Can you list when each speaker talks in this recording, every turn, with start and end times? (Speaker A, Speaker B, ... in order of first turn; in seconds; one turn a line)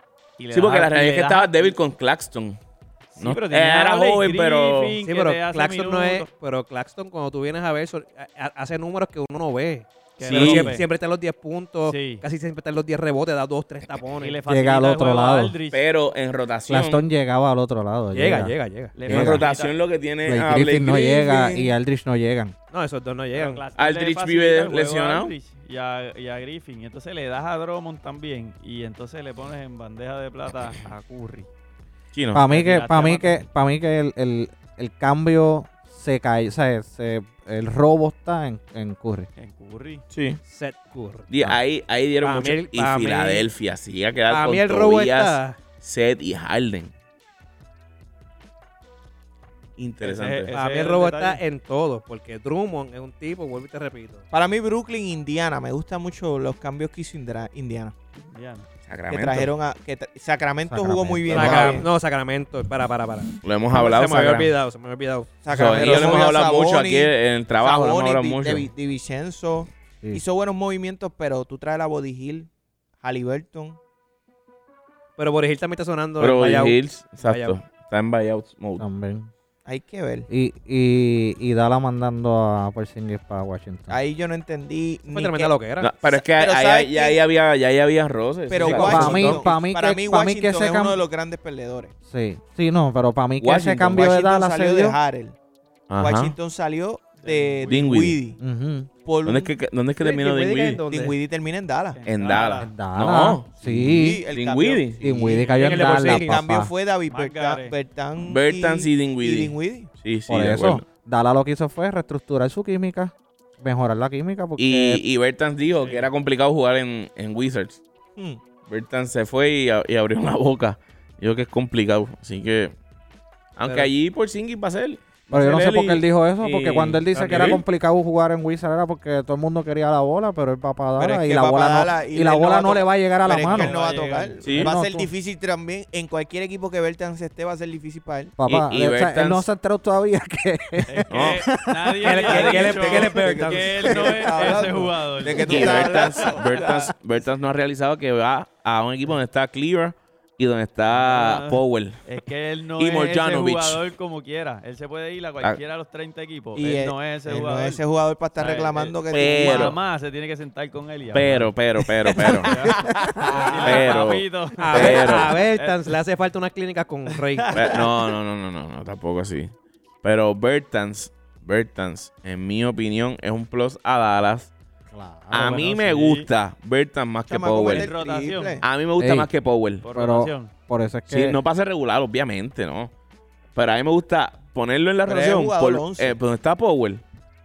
Speaker A: 0.4-1.8
Speaker B: 0.5-2.6
Speaker A: 3.1-6.3
Speaker B: 3.2-5.0
Speaker C: 5.0-14.4
Speaker A: 10.2-10.9
Speaker B: 10.2-10.8
Speaker A: 11.9-12.2
Speaker A: 14.2-15.8
Speaker D: 14.5-15.6
Speaker B: 15.7-17.0
Speaker D: 16.7-18.5
Speaker C: 18.1-19.0
Speaker A: 19.0-19.8
Speaker B: 19.1-21.7
Speaker D: 19.1-19.5
Speaker D: 20.2-22.6
Speaker C: 22.7-23.6
Speaker A: 23.3-31.5
Speaker B: 23.8-25.3
Speaker B: 32.1-32.5
Speaker D: 32.3-39.3
Speaker A: 32.5-33.5
Speaker A: 39.4-40.0
Speaker B: 40.1-40.4
Speaker C: 40.5-41.3
Speaker B: 41.3-46.9
Speaker C: 42.2-43.5
Speaker C: 44.3-45.6
Speaker B: 49.8-50.5
Speaker A: 50.0-51.4
Speaker C: 50.5-54.2
Speaker E: 54.3-58.0
Speaker A: 58.2-58.7
Speaker B: 58.9-59.5
Speaker E: 59.1-61.9
Speaker D: 60.7-61.8
Speaker C: 61.3-66.3
Speaker B: 61.4-61.8
Speaker B: 63.4-64.5
Speaker E: 65.4-72.5
Speaker B: 65.5-68.7
Speaker E: 73.0-73.8
Speaker C: 75.2-77.6
Speaker B: 76.2-78.8
Speaker D: 78.8-79.3
Speaker E: 79.7-80.3
Speaker D: 80.3-84.0
Speaker E: 83.9-87.2
Speaker C: 85.1-85.9
Speaker B: 85.8-89.5
Speaker E: 88.5-91.9
Speaker D: 88.7-91.0
Speaker D: 92.0-95.0
Speaker B: 93.4-94.0
Speaker E: 93.8-95.4
Speaker B: 95.9-96.4
Speaker E: 96.0-98.4
Speaker A: 97.2-97.9
Speaker B: 97.7-98.2
Speaker D: 98.4-98.9
Speaker E: 99.0-99.5
Speaker B: 99.2-100.8
Speaker C: 100.0-101.2
Speaker E: 100.9-102.0
Speaker A: 101.9-102.7
Speaker B: 102.1-105.0
Speaker D: 102.6-104.2
Speaker E: 103.7-109.9
Speaker D: 105.0-106.7
Speaker A: 105.4-105.9
Speaker C: 105.6-106.4
Speaker A: 107.1-107.8
Speaker B: 108.2-110.8
Speaker D: 110.3-115.0
Speaker B: 114.6-117.8
Speaker A: 115.8-116.1
Speaker E: 118.2-118.4
Speaker B: 118.7-122.8
Speaker B: 123.6-127.6
Speaker D: 125.3-133.8
Speaker C: 127.1-127.6
Speaker E: 131.0-138.4
Speaker A: 133.3-134.6
Speaker B: 134.4-134.7
Speaker D: 134.6-135.1
Speaker D: 138.4-142.0
Speaker B: 138.4-139.5
Speaker A: 140.9-146.3
Speaker B: 141.1-141.4
Speaker C: 142.0-144.6
Speaker E: 142.1-147.0
Speaker B: 145.4-152.0
Speaker A: 150.9-157.8
Speaker B: 152.8-153.8
Speaker E: 156.6-159.8
Speaker A: 158.4-161.5
Speaker B: 159.1-159.8
Speaker B: 161.1-165.4
Speaker E: 162.0-163.8
Speaker A: 162.4-165.9
Speaker C: 164.6-167.6
Speaker A: 167.4-167.9
Speaker B: 167.5-174.5
Speaker D: 174.9-175.7
Speaker B: 175.3-177.9
Speaker A: 175.4-176.3
Speaker E: 177.3-178.7
Speaker A: 177.7-178.6
Speaker B: 178.6-179.9
Speaker D: 179.0-179.3
Speaker A: 179.8-180.5
Speaker D: 179.9-181.4
Speaker B: 181.1-182.9
Speaker B: 183.6-187.0
Speaker E: 185.1-186.2